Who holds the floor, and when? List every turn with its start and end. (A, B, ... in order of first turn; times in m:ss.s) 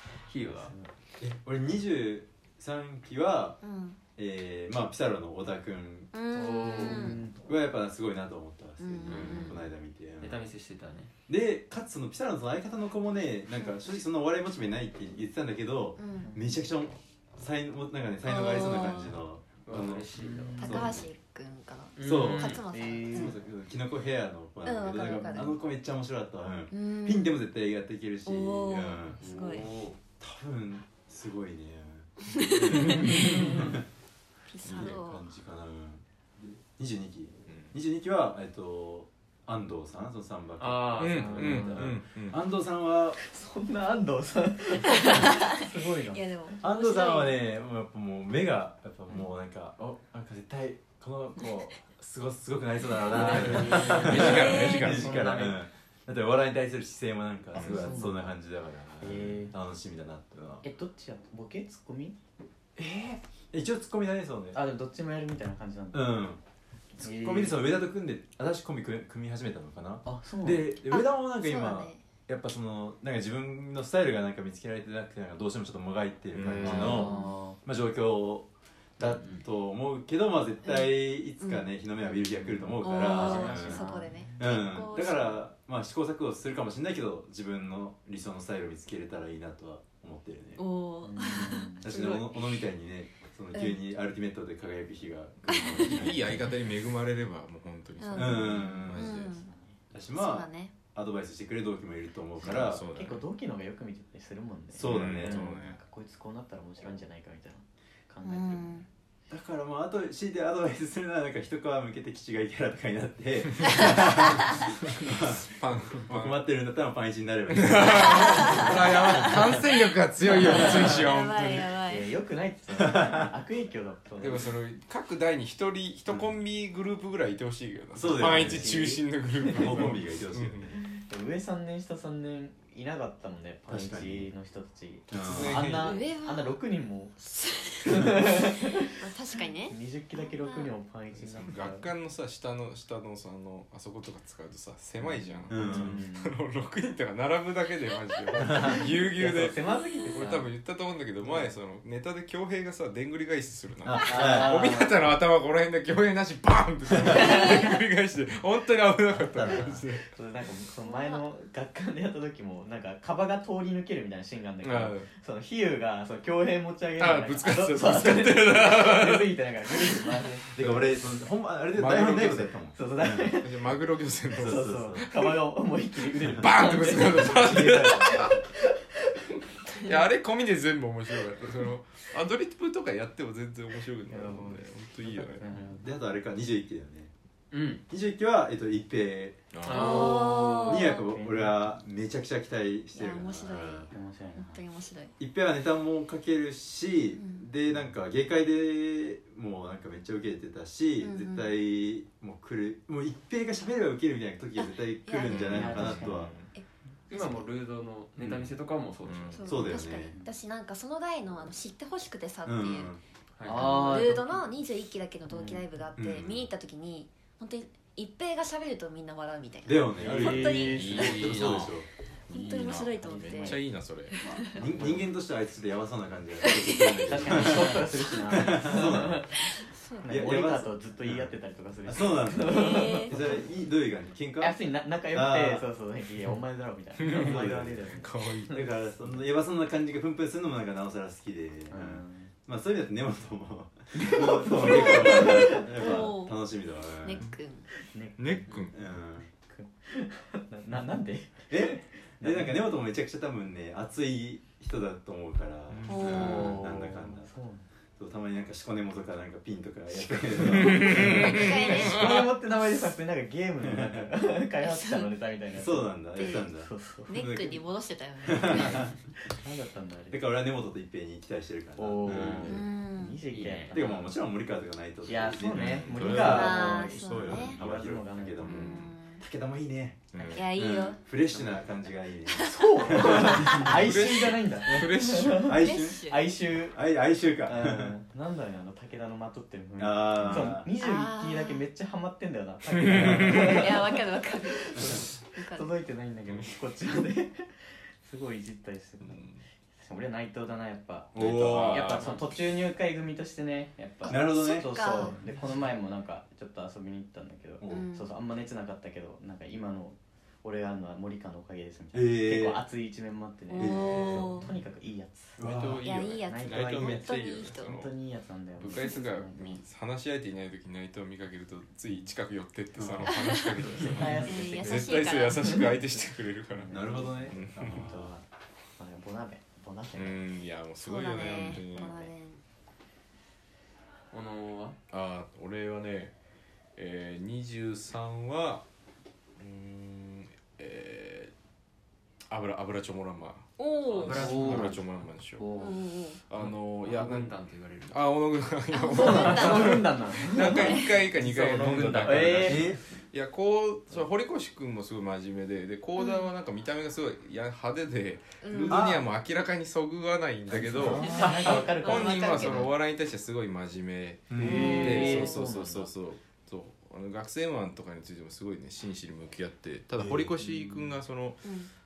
0:00.3-0:00.7 A
0:00.6-0:00.9 B
0:01.2-0:03.6 C
0:03.6-0:04.0 D
0:04.2-0:06.1 C
0:06.1-0:07.2 D
0:06.4-0:07.4 B
0:06.7-0:10.4 C
0:08.8-0:09.6 D
0:09.1-0:09.6 A
0:10.2-0:11.1 A
0:11.3-0:21.1 C
0:16.0-0:16.3 D
0:16.2-0:16.6 B
0:18.2-0:19.2 D
0:19.7-0:20.9 A
0:20.2-0:20.9 B
0:20.6-0:23.4 D
0:22.0-0:22.6 A
0:22.0-0:33.8 C
0:22.7-0:23.4 B
0:24.6-0:25.6 D
0:26.7-0:27.4 D
0:28.2-0:29.7 D
0:29.2-0:30.0 A
0:32.3-0:33.6 D
0:33.1-0:33.4 B
0:34.5-0:35.2 D
0:34.6-0:35.0 E
0:34.7-0:43.2 C
0:40.6-0:41.9 A
0:41.0-0:42.4 E
0:41.2-0:41.9 B
0:43.2-0:46.5 B
0:44.8-0:47.4 D
0:46.6-1:00.6 C
0:53.1-0:55.6 A
0:53.2-0:54.2 B
0:53.6-0:55.1 E
0:54.2-0:55.0 D
0:57.6-0:58.2 B
0:57.6-0:58.0 E
0:59.0-0:59.5 B
1:00.6-1:02.2 B
1:02.8-1:04.6 C
1:04.5-1:06.3 B
1:05.9-1:06.4 C
1:07.0-1:07.8 B
1:07.0-1:30.6 C
1:10.1-1:10.8 B
1:10.9-1:12.0 D
1:16.3-1:17.1 E
1:16.6-1:17.6 B
1:16.7-1:17.4 D
1:19.2-1:19.4 A
1:20.6-1:21.7 D
1:22.8-1:25.4 D
1:23.0-1:24.4 B
1:30.6-1:32.6 D
1:31.0-1:31.8 B
1:31.8-1:36.5 C
1:33.5-1:33.8 D
1:35.5-1:35.9 D
1:35.8-1:39.4 E
1:38.0-1:39.5 D
1:38.2-1:39.2 C
1:39.4-1:39.8 B
1:39.9-1:42.8 C
1:40.1-1:40.7 D
1:42.4-1:43.2 E
1:42.4-1:48.8 B
1:44.8-1:45.5 C
1:44.8-1:45.8 E
1:48.2-1:48.9 D
1:49.3-1:59.5 C
1:55.4-1:56.5 E
1:57.5-2:01.7 E
1:58.0-1:59.2 D
2:00.3-2:02.1 D
2:00.5-2:00.9 B
2:01.8-2:04.6 B
2:02.8-2:03.3 C
2:04.2-2:10.7 E
2:08.0-2:08.8 C
2:08.2-2:10.0 B
2:09.5-2:10.8 C
2:10.8-2:17.2 B
2:13.7-2:14.3 C
2:15.1-2:15.9 C
2:15.2-2:15.9 E
2:15.8-2:16.6 D
2:17.2-2:20.7 D
2:17.8-2:19.0 B
2:19.7-2:21.9 B
2:21.2-2:40.1 E
2:25.0-2:26.4 B
2:25.5-2:26.0 C
2:29.0-2:30.5 B
2:31.2-2:31.5 B
2:33.8-2:34.7 C
2:34.0-2:35.0 B
2:37.0-2:37.4 C
2:37.1-2:37.8 D
2:39.1-2:39.8 C
2:39.6-2:50.9 B
2:40.9-2:41.2 D
2:44.6-2:45.1 E
2:47.0-2:50.0 E
2:50.6-2:53.4 C
2:51.7-2:52.5 E
2:52.2-2:53.8 B
2:53.3-2:55.4 E
2:54.4-2:59.4 B
2:54.4-2:55.0 C
2:56.2-2:58.4 E
2:57.1-2:58.3 C
2:59.8-3:05.7 E
3:04.1-3:05.9 B
3:05.8-3:07.1 C
3:07.5-3:07.8 A
3:07.9-3:13.9 C
3:09.5-3:10.3 E
3:09.6-3:10.4 A
3:09.7-3:11.0 D
3:10.7-3:11.8 B
3:13.0-3:15.1 D
3:13.9-3:14.6 B
3:15.2-3:26.3 C
3:17.2-3:17.5 D
3:21.0-3:21.5 D
3:24.6-3:25.7 D
3:25.3-3:26.5 E
3:25.4-3:26.3 B
3:26.6-3:27.5 D
3:27.1-3:29.7 A
3:29.0-3:29.7 E
3:29.3-3:32.9 D
3:29.5-3:30.2 C
3:29.8-3:30.3 B
3:32.4-3:33.0 C
3:33.4-3:33.9 A
3:33.4-3:34.5 B
3:33.5-3:41.7 D
3:35.3-3:35.6 B
3:36.0-3:36.5 C
3:39.7-3:41.9 C
3:40.0-3:41.2 B
3:40.2-3:41.8 E
3:42.3-3:43.6 D
3:42.3-3:45.0 E
3:43.0-3:43.6 B
3:44.2-3:44.6 D
3:44.2-3:49.3 C
3:44.7-3:45.0 B
3:46.4-3:47.1 D
3:47.0-3:53.4 B
3:49.4-3:50.3 D
3:50.1-3:51.3 C
3:51.9-3:55.6 C
3:52.4-3:53.2 D
3:54.4-3:58.7 B
3:57.0-3:58.6 E
3:57.0-3:57.9 C
3:58.5-4:07.2 C
4:01.7-4:02.3 B
4:04.0-4:05.9 B
4:04.4-4:06.4 D
4:07.0-4:07.7 D
4:07.8-4:08.7 B
4:08.2-4:08.8 E
4:08.7-4:09.3 C
4:09.2-4:12.6 B
4:11.5-4:17.3 C
4:15.7-4:16.7 E
4:15.9-4:16.6 D
4:16.0-4:17.7 B
4:18.0-4:21.8 C
4:20.4-4:27.2 B
4:20.5-4:22.3 E
4:20.9-4:22.2 D
4:23.6-4:24.1 C
4:24.6-4:25.1 D
4:25.6-4:27.6 C
4:26.2-4:26.5 D
4:27.1-4:28.9 D
4:28.2-4:28.9 C
4:28.4-4:30.3 B
4:30.1-4:32.7 C
4:31.8-4:34.2 B
4:32.4-4:33.2 D
4:33.3-4:33.8 A
4:33.7-4:44.0 C
4:35.0-4:38.7 B
4:35.5-4:37.6 E
4:36.1-4:37.6 D
4:38.4-4:38.9 E
4:38.4-4:39.2 D
4:40.1-4:40.4 E
4:40.3-4:41.0 D
4:41.3-4:41.6 A
4:42.3-4:43.7 D
4:42.4-4:46.8 B
4:43.7-4:45.6 E
4:44.7-4:46.0 C
4:45.6-4:46.3 D
4:46.7-4:47.9 C
4:47.4-4:59.2 B
4:49.8-4:50.7 C
4:50.8-4:51.6 D
4:52.7-4:53.6 E
4:52.9-4:53.3 C
4:53.3-4:55.7 D
4:59.0-4:59.4 E
4:59.8-5:19.6 B
5:01.2-5:02.2 C
5:01.2-5:02.2 E
5:04.0-5:05.1 D
5:04.1-5:05.1 C
5:07.6-5:07.9 C
5:07.7-5:08.1 D
5:11.9-5:12.6 C
5:13.5-5:14.5 D
5:13.6-5:14.5 C
5:15.4-5:16.2 C
5:15.4-5:17.9 E
5:15.8-5:17.8 D
5:18.6-5:27.8 E
5:22.8-5:24.2 C
5:23.2-5:23.4 D
5:23.6-5:28.3 B
5:24.2-5:25.6 D
5:26.7-5:28.1 C
5:28.8-5:30.2 B
5:30.0-5:32.0 E
5:30.8-5:32.4 D
5:31.8-5:32.0 B
5:34.1-5:34.8 A
5:34.9-5:36.1 E
5:36.8-5:38.6 E
5:39.4-5:41.3 E
5:42.3-5:45.6 E
5:43.6-5:44.3 D
5:43.9-5:44.8 A
5:44.1-5:44.8 B
5:45.4-5:45.7 B
5:45.6-5:46.2 D
5:46.3-5:47.4 E
5:46.4-5:48.0 A
5:47.9-6:11.5 E
5:48.7-5:49.9 D
5:48.9-5:52.8 B
5:50.4-5:51.0 D
5:51.7-5:52.5 A
5:52.3-5:52.8 C
5:56.0-5:56.2 D
5:58.4-5:58.9 D
5:58.7-5:59.1 C
6:00.5-6:02.7 B
6:00.6-6:01.3 C
6:01.0-6:02.7 D
6:04.3-6:05.3 C
6:04.4-6:05.9 B
6:04.4-6:05.3 D
6:10.0-6:10.9 C
6:11.4-6:11.7 D